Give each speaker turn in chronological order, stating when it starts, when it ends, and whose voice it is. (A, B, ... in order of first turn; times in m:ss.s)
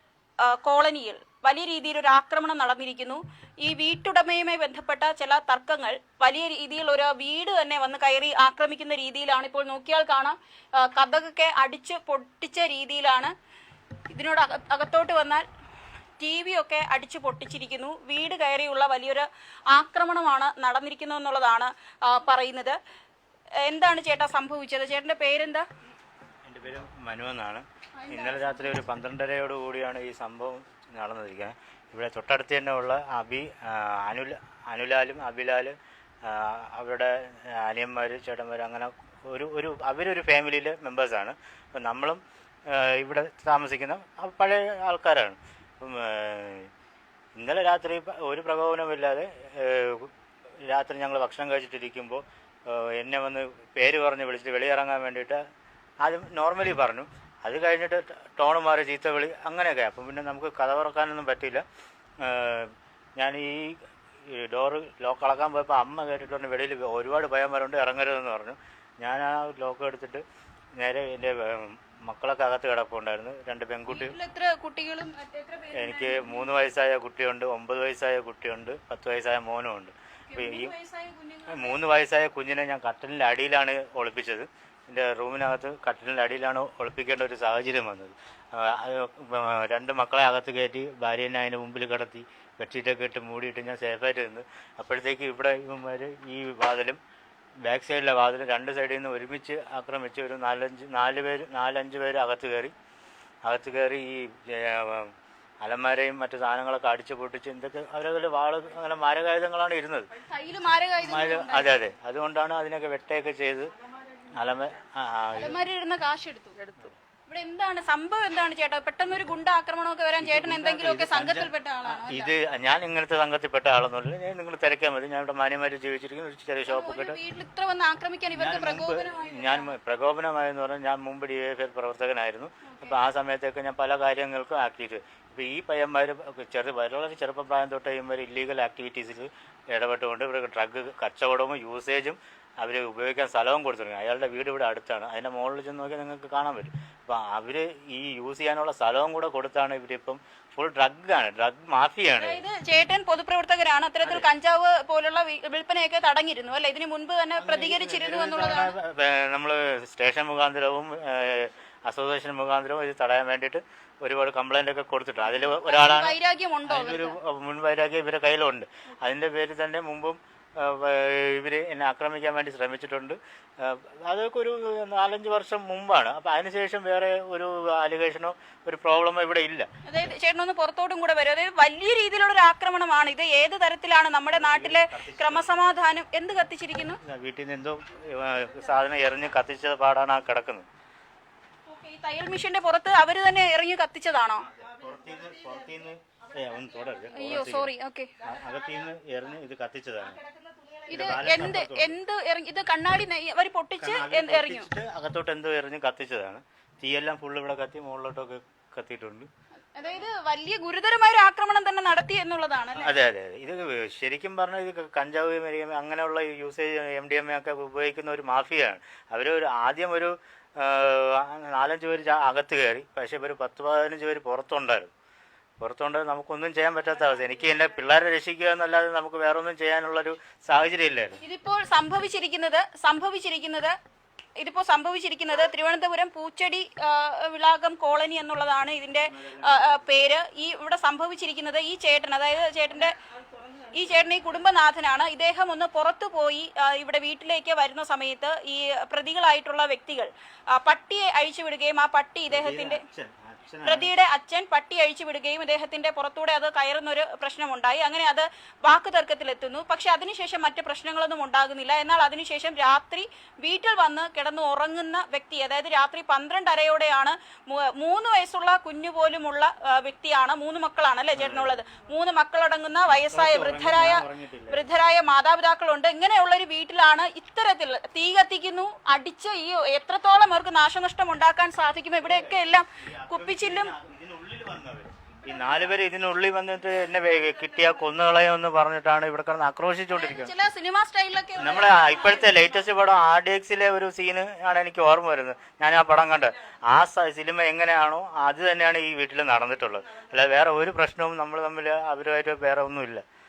0:00.4-0:13.3 A
0:14.1-0:15.4 A
0:16.2-0:22.8 A
0:23.6-0:25.7 A
0:26.4-0:46.7 B
0:28.0-0:28.8 A
0:47.4-0:50.1 B
0:50.6-0:55.4 B
0:56.0-1:01.6 B
1:02.2-1:10.2 B
1:10.8-1:14.2 B
1:13.9-1:16.5 A
1:15.7-1:20.7 B
1:20.3-1:21.8 A
1:21.5-1:37.0 B
1:37.6-1:42.7 B
1:43.4-1:50.1 B
1:50.2-1:51.8 A
1:51.0-1:53.7 B
1:54.3-1:55.6 B
1:55.3-1:56.7 A
1:57.3-2:02.3 A
2:00.2-2:07.2 B
2:06.7-2:09.7 A
2:08.3-2:32.4 B
2:12.6-2:13.0 A
2:32.2-2:38.7 A
2:34.0-2:34.3 B
2:37.4-2:59.7 B
2:45.5-2:47.2 A
2:59.9-3:07.0 A
3:04.3-3:05.6 B
3:07.0-3:10.7 B
3:11.7-3:14.5 A
3:14.4-3:17.7 B
3:17.1-3:18.2 A
3:18.2-3:20.2 B
3:20.9-3:22.0 B
3:20.9-3:24.7 A
3:23.8-3:29.3 B
3:29.8-3:32.9 A
3:32.8-3:44.9 B
3:45.6-3:51.2 B
3:51.2-3:53.8 A
3:54.4-4:03.0 A
3:59.0-3:59.8 B
4:03.5-4:12.8 A
4:12.3-4:13.9 B
4:13.6-4:43.7 A
4:31.2-4:31.6 B
4:32.9-4:34.7 B
4:42.0-4:50.3 B
4:49.9-4:52.3 A
4:51.4-5:03.0 B